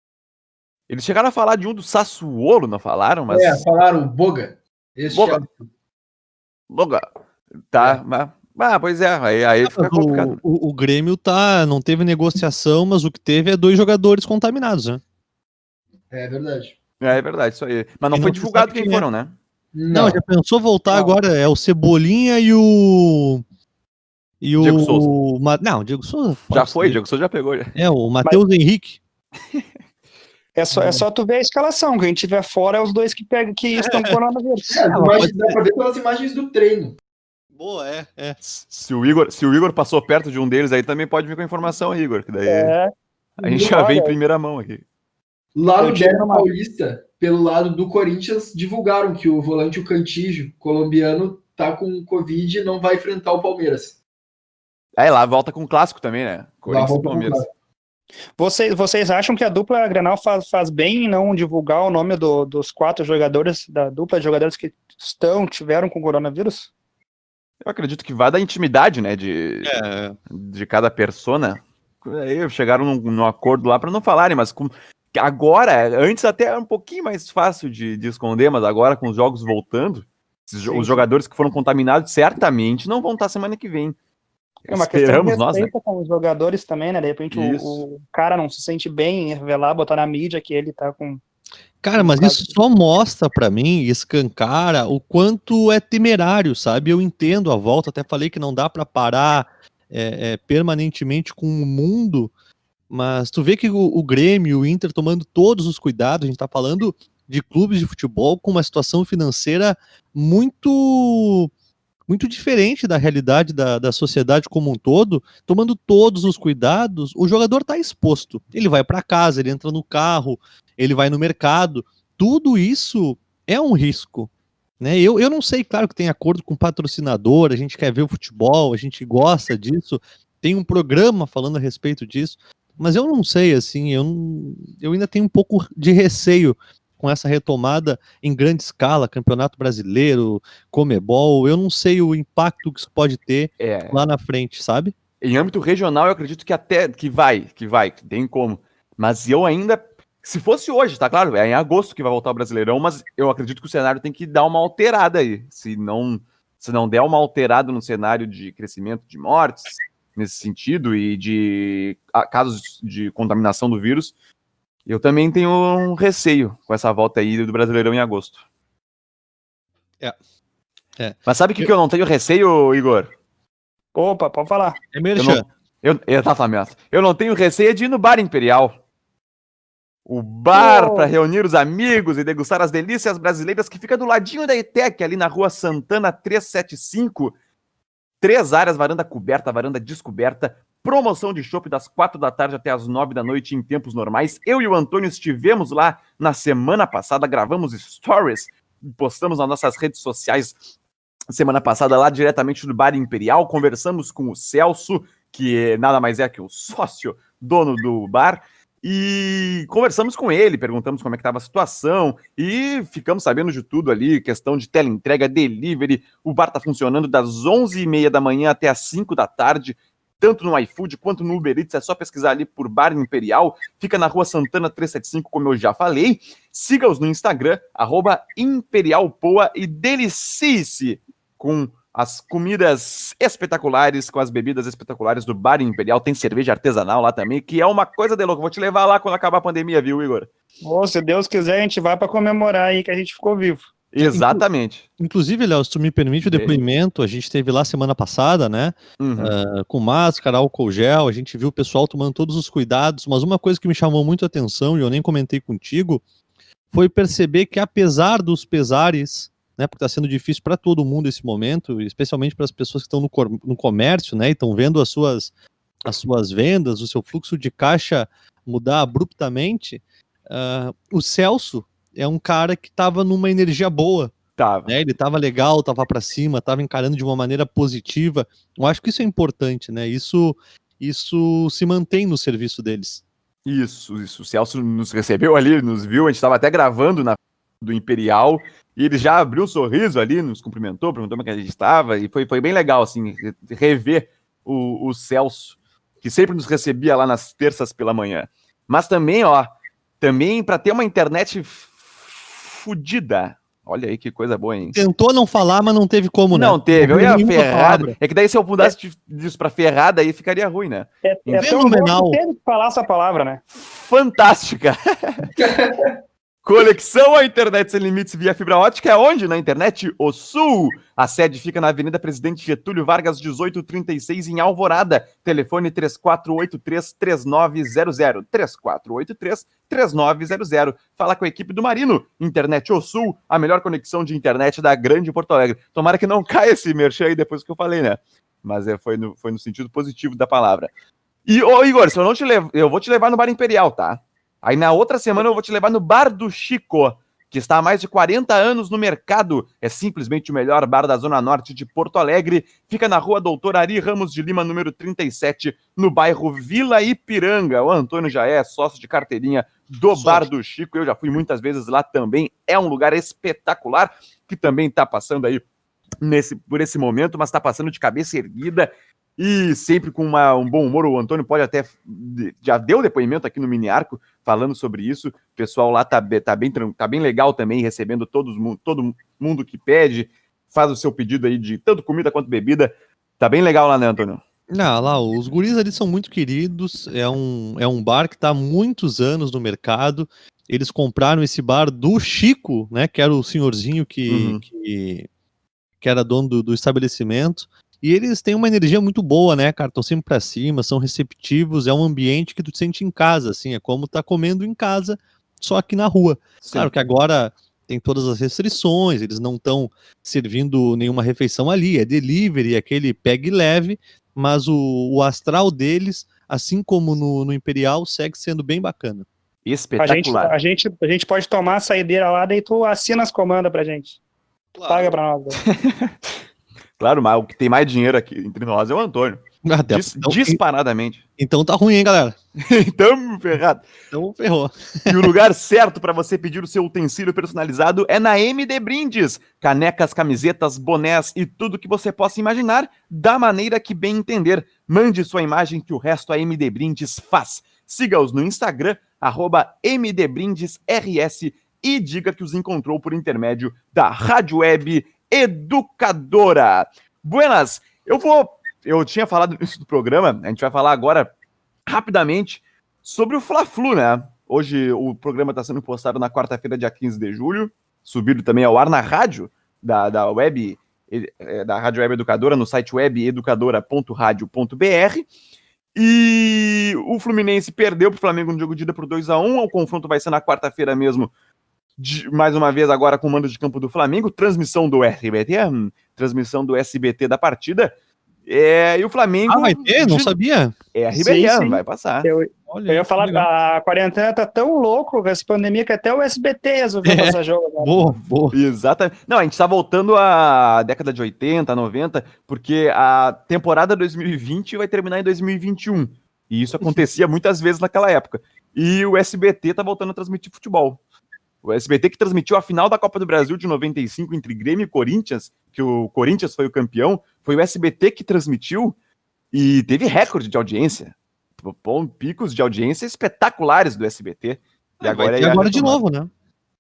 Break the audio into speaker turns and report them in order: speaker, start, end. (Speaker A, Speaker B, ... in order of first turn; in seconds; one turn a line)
Speaker A: 0.9-3.6
Speaker B: 3.3-5.7
Speaker A: 5.1-5.4
Speaker A: 6.7-7.1
Speaker A: 7.7-10.4
Speaker C: 9.7-15.0
Speaker B: 16.1-16.8
Speaker A: 17.0-19.3
Speaker C: 18.1-19.1
Speaker B: 19.7-20.2
Speaker C: 19.9-23.4
Speaker C: 24.4-27.0
Speaker A: 24.6-25.1
Speaker A: 26.5-27.8
Speaker C: 27.8-29.0
Speaker D: 30.6-34.8
Speaker B: 30.7-31.1
Speaker C: 33.8-34.2
Speaker B: 34.7-37.0
Speaker C: 34.9-35.6
Speaker C: 37.6-38.4
Speaker A: 38.4-42.8
Speaker D: 42.5-42.9
Speaker A: 43.4-44.8
Speaker D: 43.5-44.1
Speaker B: 45.6-54.0
Speaker D: 45.8-46.5
Speaker A: 55.0-57.4
Speaker B: 56.7-57.5
Speaker D: 58.4-66.7
Speaker A: 67.6-69.7
Speaker C: 69.6-70.2
Speaker A: 70.3-84.0
Speaker D: 80.7-81.0
Speaker A: 84.7-85.7
Speaker D: 84.7-91.2
Speaker A: 87.3-87.8
Speaker C: 91.8-102.3
Speaker D: 92.0-92.5
Speaker C: 102.9-111.5
Speaker C: 112.1-144.9
Speaker A: 143.6-144.0
Speaker A: 145.2-164.1
Speaker A: 164.9-168.4
Speaker C: 171.0-171.7
Speaker A: 171.3-173.1
Speaker D: 173.9-174.8
Speaker C: 174.9-175.4
Speaker A: 175.2-178.8
Speaker A: 180.1-187.3
Speaker D: 180.5-181.1
Speaker A: 188.2-200.6
Speaker A: 201.3-240.3
Speaker D: 240.6-243.6
Speaker A: 243.9-244.9
Speaker C: 244.0-244.4
Speaker C: 245.0-256.0
Speaker A: 246.2-246.6
Speaker A: 249.0-249.3
Speaker C: 256.7-265.3
Speaker C: 265.9-274.1
Speaker A: 274.4-274.7
Speaker C: 274.7-283.0
Speaker A: 283.4-304.8
Speaker C: 304.7-308.0
Speaker A: 306.3-310.9
Speaker D: 311.0-313.4
Speaker C: 311.3-312.2
Speaker A: 313.5-315.3
Speaker B: 315.4-315.9
Speaker A: 316.4-340.7
Speaker A: 341.3-365.4
Speaker C: 359.9-360.3
Speaker A: 366.0-384.2
Speaker C: 384.5-395.1
Speaker A: 394.1-394.4
Speaker C: 395.8-419.1
Speaker A: 406.4-406.7
Speaker A: 419.4-420.3
Speaker D: 419.8-424.0
Speaker C: 424.5-424.9
Speaker D: 424.7-425.4
Speaker A: 425.4-426.2
Speaker A: 426.8-431.0
Speaker C: 429.4-430.4
Speaker C: 431.2-432.1
Speaker A: 432.4-433.7
Speaker C: 433.9-435.1
Speaker A: 434.9-461.1
Speaker A: 461.7-475.1
Speaker A: 475.8-481.1
Speaker A: 481.8-487.7
Speaker A: 488.3-490.2
Speaker C: 489.3-490.5
Speaker A: 490.7-492.1
Speaker D: 490.9-497.8
Speaker C: 492.5-493.3
Speaker C: 496.9-498.4
Speaker A: 498.3-510.8
Speaker A: 511.4-518.8
Speaker A: 519.3-525.8
Speaker C: 524.8-526.1